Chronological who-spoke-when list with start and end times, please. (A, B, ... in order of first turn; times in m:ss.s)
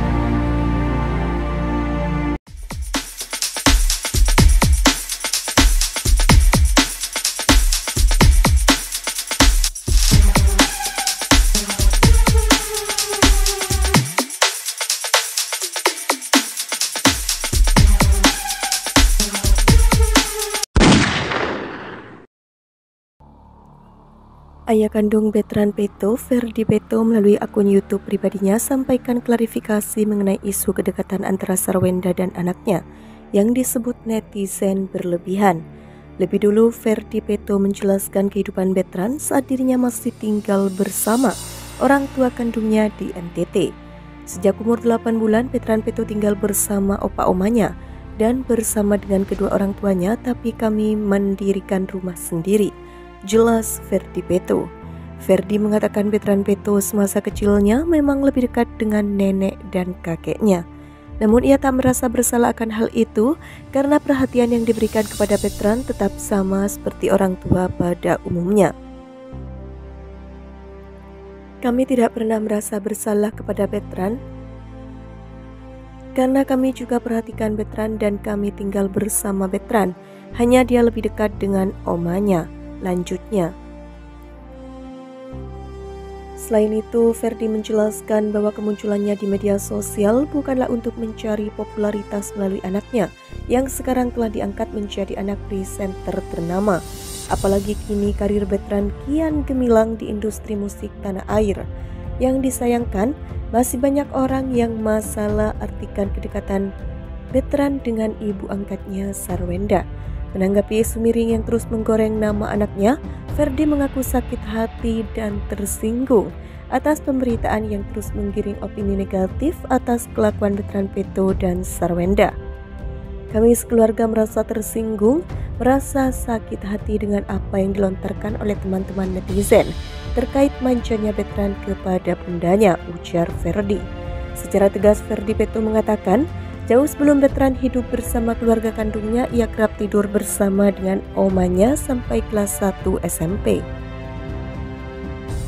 0:24.7-0:32.8 A
0:33.4-0:35.6 A
0:36.2-0:43.7 A
0:44.3-0:52.7 A
0:53.3-0:54.7 A
0:55.2-1:00.6 A
1:01.2-1:08.7 A
1:11.6-1:14.2 A
1:16.2-1:23.5 A
1:26.4-1:36.8 A
1:37.3-1:41.6 A
1:42.2-1:46.7 A
1:47.4-1:49.8 A
1:50.4-2:02.3 A
2:03.3-2:13.8 A
2:14.4-2:23.6 A